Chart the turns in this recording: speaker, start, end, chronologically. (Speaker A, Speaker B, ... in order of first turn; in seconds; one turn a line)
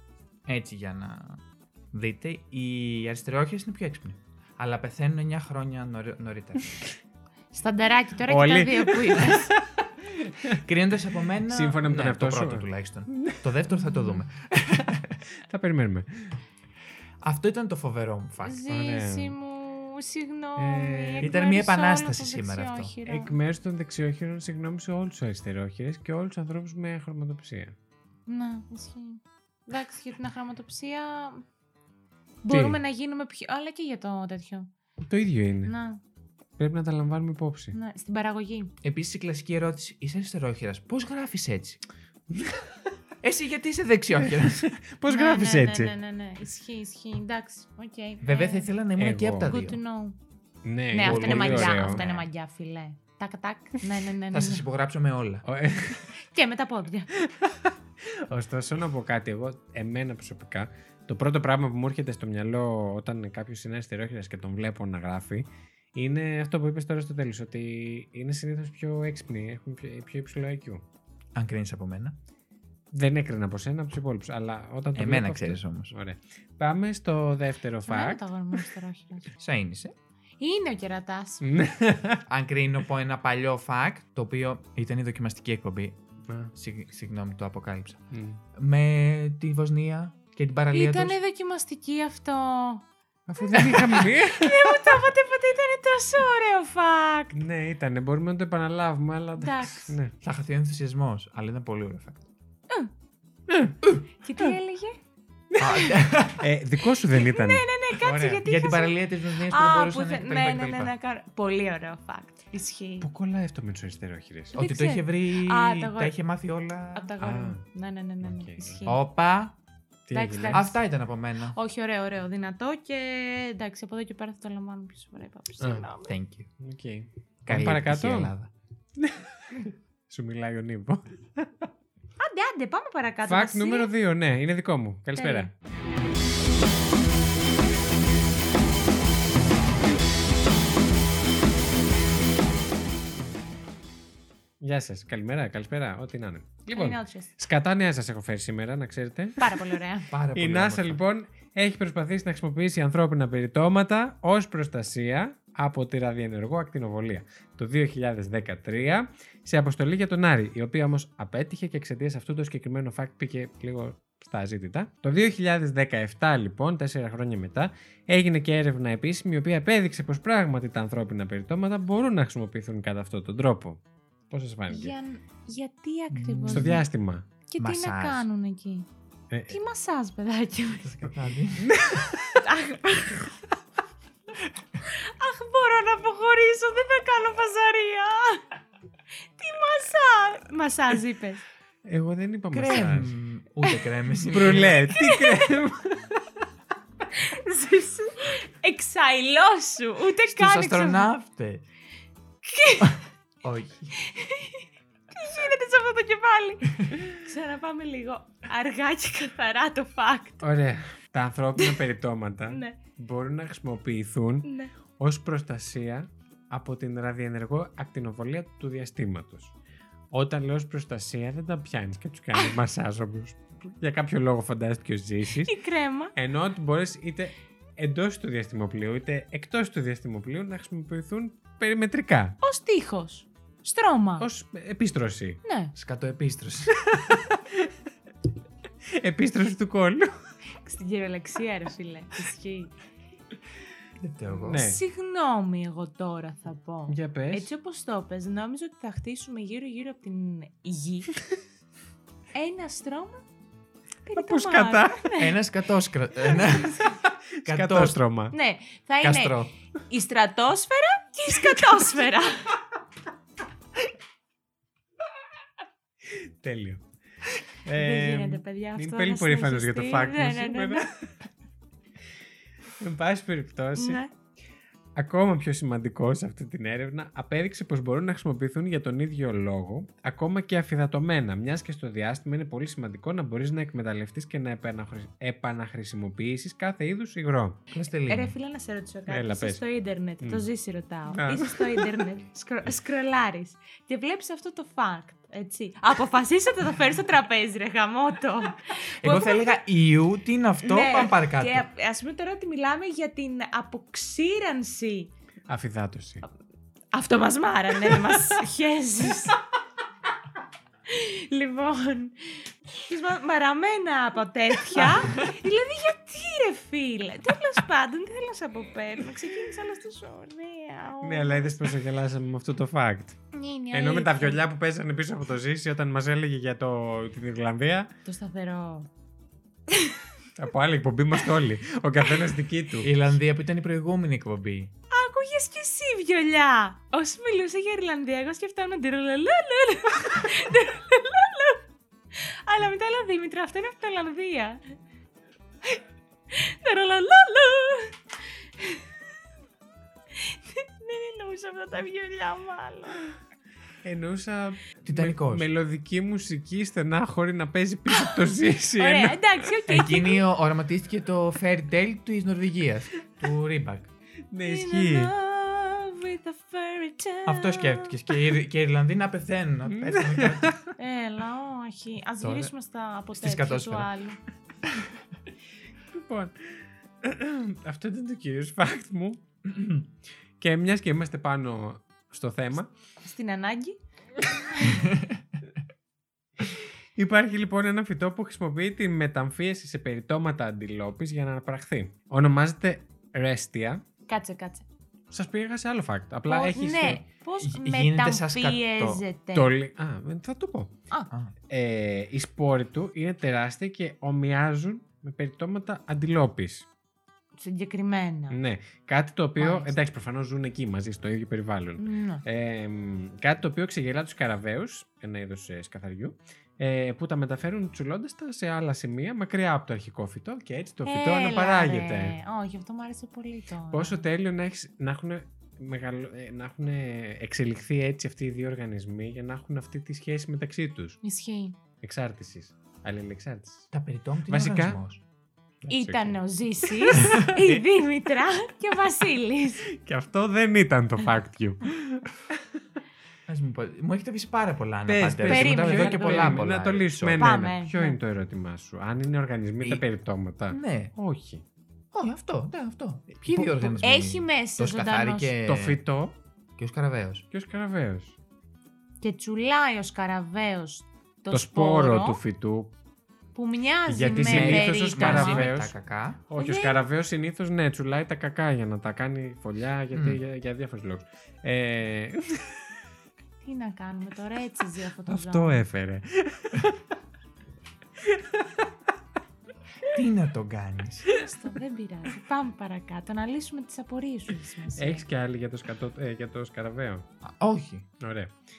Speaker A: 0.5-1.4
Speaker A: 1.9-6.8
Speaker B: 7.5-9.5
Speaker C: 8.3-9.8
Speaker A: 10.4-15.2
Speaker C: 11.4-13.5
Speaker C: 15.4-16.3
Speaker A: 17.2-18.7
Speaker B: 18.4-23.4
Speaker C: 18.7-19.4
Speaker C: 20.6-21.3
Speaker A: 21.2-22.9
Speaker C: 23.1-27.8
Speaker B: 28.3-31.4
Speaker B: 32.4-34.7
Speaker C: 32.5-32.8
Speaker C: 35.0-35.7
Speaker B: 35.6-36.0
Speaker C: 36.6-37.8
Speaker B: 37.7-38.7
Speaker A: 38.8-41.8
Speaker C: 42.3-42.7
Speaker A: 43.2-44.8
Speaker C: 44.3-45.9
Speaker B: 45.1-48.7
Speaker A: 48.2-49.8
Speaker C: 49.0-49.6
Speaker B: 49.5-50.2
Speaker C: 50.6-52.0
Speaker B: 50.9-54.6
Speaker A: 51.0-52.3
Speaker A: 54.3-55.5
Speaker C: 55.5-56.1
Speaker B: 56.1-57.1
Speaker C: 57.2-70.8
Speaker A: 71.3-72.2
Speaker C: 72.9-78.7
Speaker A: 75.0-75.9
Speaker B: 77.8-79.3
Speaker A: 79.4-80.0
Speaker B: 80.4-81.5
Speaker C: 81.4-82.2
Speaker A: 82.3-86.0
Speaker C: 86.3-86.5
Speaker A: 86.5-91.2
Speaker C: 88.1-88.4
Speaker B: 90.7-92.9
Speaker C: 93.3-95.0
Speaker B: 93.4-97.4
Speaker C: 97.3-100.1
Speaker B: 99.4-100.0
Speaker A: 100.2-102.3
Speaker C: 103.5-103.8
Speaker B: 104.2-105.0
Speaker C: 105.5-108.4
Speaker A: 105.6-106.5
Speaker B: 107.1-113.1
Speaker A: 108.4-110.9
Speaker C: 113.0-114.6
Speaker A: 114.5-117.1
Speaker B: 114.5-116.1
Speaker B: 117.0-119.0
Speaker C: 117.2-117.6
Speaker C: 118.2-118.8
Speaker A: 118.9-119.6
Speaker C: 120.1-120.7
Speaker B: 120.1-120.8
Speaker A: 120.5-121.6
Speaker B: 121.5-126.2
Speaker C: 125.6-125.9
Speaker A: 126.1-126.5
Speaker C: 126.6-128.3
Speaker A: 127.5-128.5
Speaker C: 129.0-131.7
Speaker B: 132.2-133.9
Speaker C: 133.3-135.5
Speaker B: 135.2-135.5
Speaker C: 144.6-149.6
Speaker B: 146.7-147.3
Speaker B: 149.4-150.1
Speaker A: 150.1-151.0
Speaker C: 150.3-175.0
Speaker B: 174.7-176.8
Speaker A: 176.1-176.8
Speaker C: 176.5-177.3
Speaker B: 177.5-178.9
Speaker A: 177.6-178.3
Speaker C: 179.3-179.6
Speaker B: 179.5-181.1
Speaker A: 180.8-181.7
Speaker C: 181.6-182.4
Speaker B: 182.3-183.3
Speaker B: 184.8-188.4
Speaker B: 189.4-191.4
Speaker C: 191.8-193.1
Speaker A: 192.5-194.8
Speaker C: 194.2-196.3
Speaker B: 194.9-195.6
Speaker B: 197.1-201.1
Speaker A: 200.3-201.7
Speaker B: 202.4-203.0
Speaker A: 203.4-204.0
Speaker B: 204.0-210.5
Speaker C: 210.4-219.6
Speaker B: 212.5-212.8
Speaker B: 214.4-214.7
Speaker C: 220.1-225.5
Speaker B: 225.4-226.1
Speaker C: 226.2-232.4
Speaker B: 232.4-234.3
Speaker C: 234.2-235.4
Speaker B: 235.4-235.7
Speaker A: 235.8-236.9
Speaker C: 236.9-237.7
Speaker C: 238.9-240.1
Speaker B: 240.6-242.7
Speaker A: 244.0-244.6
Speaker C: 244.3-244.8
Speaker B: 244.4-251.2
Speaker C: 246.9-247.5
Speaker B: 252.3-253.2
Speaker B: 254.1-255.4
Speaker C: 254.2-255.2
Speaker A: 255.2-256.9
Speaker B: 256.5-256.9
Speaker C: 256.9-258.4
Speaker A: 257.4-258.0
Speaker B: 258.3-259.4
Speaker A: 259.0-259.5
Speaker B: 259.9-262.6
Speaker C: 266.1-266.8
Speaker C: 267.6-271.1
Speaker B: 267.7-270.9
Speaker C: 272.8-274.0
Speaker B: 273.8-274.1
Speaker C: 275.0-287.6
Speaker A: 287.7-288.4
Speaker B: 288.1-299.6
Speaker C: 289.1-289.6
Speaker C: 291.1-291.9
Speaker A: 299.0-301.7
Speaker B: 300.6-305.1
Speaker C: 305.5-306.2
Speaker B: 306.9-309.4
Speaker B: 310.9-321.7
Speaker C: 321.0-323.2
Speaker B: 323.3-324.4
Speaker C: 323.7-327.9
Speaker B: 328.1-328.9
Speaker B: 329.7-330.1
Speaker C: 330.4-332.9
Speaker A: 332.8-334.7
Speaker B: 334.9-341.6
Speaker B: 342.5-344.6
Speaker B: 346.3-348.0
Speaker B: 348.6-348.8
Speaker B: 350.2-353.0
Speaker C: 353.8-359.5
Speaker A: 354.8-355.5
Speaker B: 357.9-360.2
Speaker A: 359.7-363.9
Speaker C: 364.3-365.1
Speaker B: 364.4-368.1
Speaker A: 367.3-370.6
Speaker C: 369.7-370.7
Speaker B: 370.8-374.2
Speaker A: 372.2-372.5
Speaker A: 373.1-373.9
Speaker C: 375.9-379.2
Speaker C: 380.4-382.7
Speaker B: 383.0-383.8
Speaker B: 384.5-384.9
Speaker C: 387.0-393.8
Speaker B: 394.1-394.7
Speaker C: 395.1-397.0
Speaker B: 396.3-399.5
Speaker A: 397.4-399.0
Speaker C: 399.3-400.8
Speaker C: 401.5-406.7
Speaker B: 407.4-408.4
Speaker C: 408.3-422.2
Speaker B: 409.4-409.8
Speaker B: 411.8-412.2
Speaker B: 420.9-424.1
Speaker C: 423.7-431.0
Speaker B: 431.0-431.6
Speaker C: 431.8-433.7
Speaker A: 433.7-435.0
Speaker C: 434.3-434.8
Speaker C: 435.6-437.6
Speaker B: 435.7-439.7
Speaker C: 439.7-442.6
Speaker A: 443.3-447.3
Speaker C: 444.9-451.4
Speaker B: 445.3-446.4
Speaker B: 447.2-448.0
Speaker A: 450.5-450.9
Speaker A: 451.9-455.8
Speaker B: 453.3-455.3
Speaker C: 455.4-456.2
Speaker A: 456.6-457.3
Speaker C: 457.3-458.2
Speaker B: 459.0-462.2
Speaker C: 461.3-462.7
Speaker B: 463.4-465.5
Speaker C: 463.9-465.8
Speaker A: 464.1-466.2
Speaker C: 466.3-472.6
Speaker B: 466.4-466.9
Speaker A: 469.9-470.2
Speaker B: 473.4-475.6
Speaker C: 475.1-476.8
Speaker C: 478.0-478.6
Speaker A: 479.8-481.1
Speaker B: 481.1-485.1
Speaker C: 484.8-487.1
Speaker A: 487.2-487.9
Speaker C: 488.0-488.3